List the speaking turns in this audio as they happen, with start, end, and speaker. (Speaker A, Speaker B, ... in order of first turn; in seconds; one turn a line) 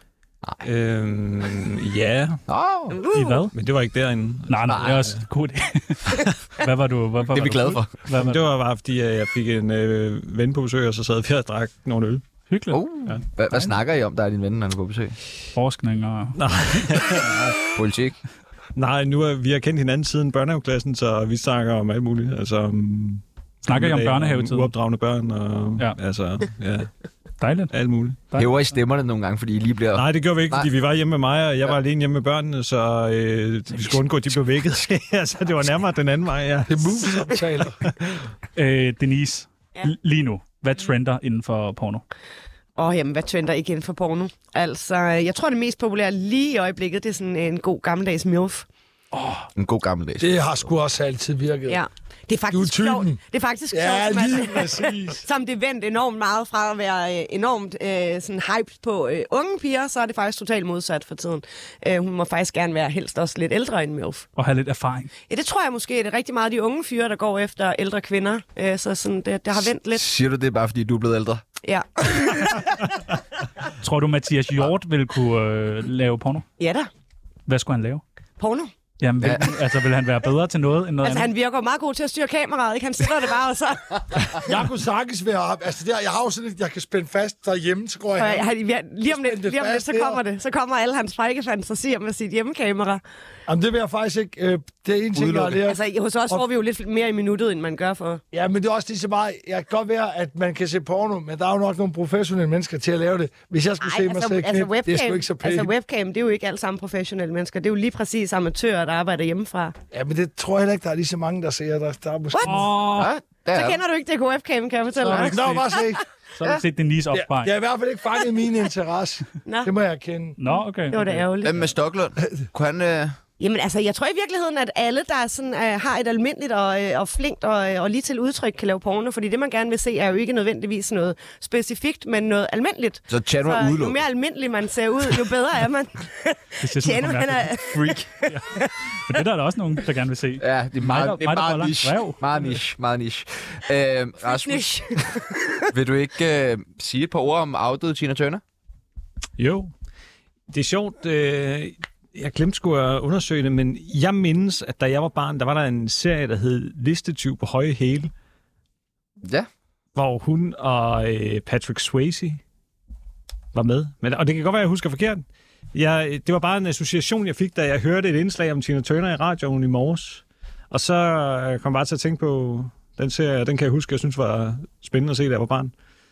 Speaker A: 0.6-2.4
Speaker B: 2.5-3.0
Speaker C: 2.9-3.4
Speaker D: 3.1-3.5
Speaker A: 3.1-5.2
Speaker D: 4.5-8.4
Speaker B: 4.7-4.9
Speaker B: 7.3-8.0
Speaker A: 8.1-12.2
Speaker D: 12.5-12.8
Speaker B: 12.7-15.2
Speaker D: 15.5-16.4
Speaker A: 16.3-17.6
Speaker B: 17.7-18.2
Speaker A: 18.8-26.9
Speaker D: 23.7-24.7
Speaker D: 27.4-27.7
Speaker A: 27.7-28.3
Speaker D: 28.3-28.5
Speaker B: 28.3-30.7
Speaker A: 29.9-37.2
Speaker E: 36.7-37.8
Speaker A: 37.8-38.1
Speaker D: 38.5-42.0
Speaker C: 42.8-48.6
Speaker B: 49.5-50.4
Speaker E: 50.2-51.8
Speaker C: 51.7-64.2
Speaker E: 52.5-53.2
Speaker E: 53.7-55.2
Speaker D: 64.3-65.1
Speaker C: 65.3-70.0
Speaker B: 69.9-71.4
Speaker C: 71.6-72.7
Speaker D: 73.8-76.5
Speaker C: 76.6-76.9
Speaker D: 77.5-78.0
Speaker C: 78.4-78.7
Speaker D: 79.0-81.3
Speaker B: 79.2-79.5
Speaker C: 81.0-84.4
Speaker E: 84.4-88.5
Speaker C: 88.2-93.0
Speaker E: 89.0-90.2
Speaker E: 93.5-96.4
Speaker B: 95.2-95.6
Speaker C: 95.6-98.2
Speaker E: 98.3-105.7
Speaker C: 103.8-109.7
Speaker E: 109.9-112.7
Speaker C: 112.3-112.6
Speaker D: 112.4-113.1
Speaker B: 112.9-113.8
Speaker C: 113.5-116.0
Speaker E: 115.0-116.0
Speaker D: 116.4-117.5
Speaker E: 117.1-120.4
Speaker C: 119.4-119.7
Speaker D: 120.4-121.2
Speaker C: 120.9-121.7
Speaker B: 121.4-123.2
Speaker C: 123.4-139.2
Speaker B: 133.1-134.0
Speaker D: 136.6-138.5
Speaker D: 139.1-142.5
Speaker B: 140.4-144.8
Speaker C: 144.2-145.7
Speaker B: 145.7-148.4
Speaker A: 149.4-149.7
Speaker A: 150.5-158.1
Speaker B: 159.2-159.5
Speaker A: 159.9-162.4
Speaker A: 163.5-175.7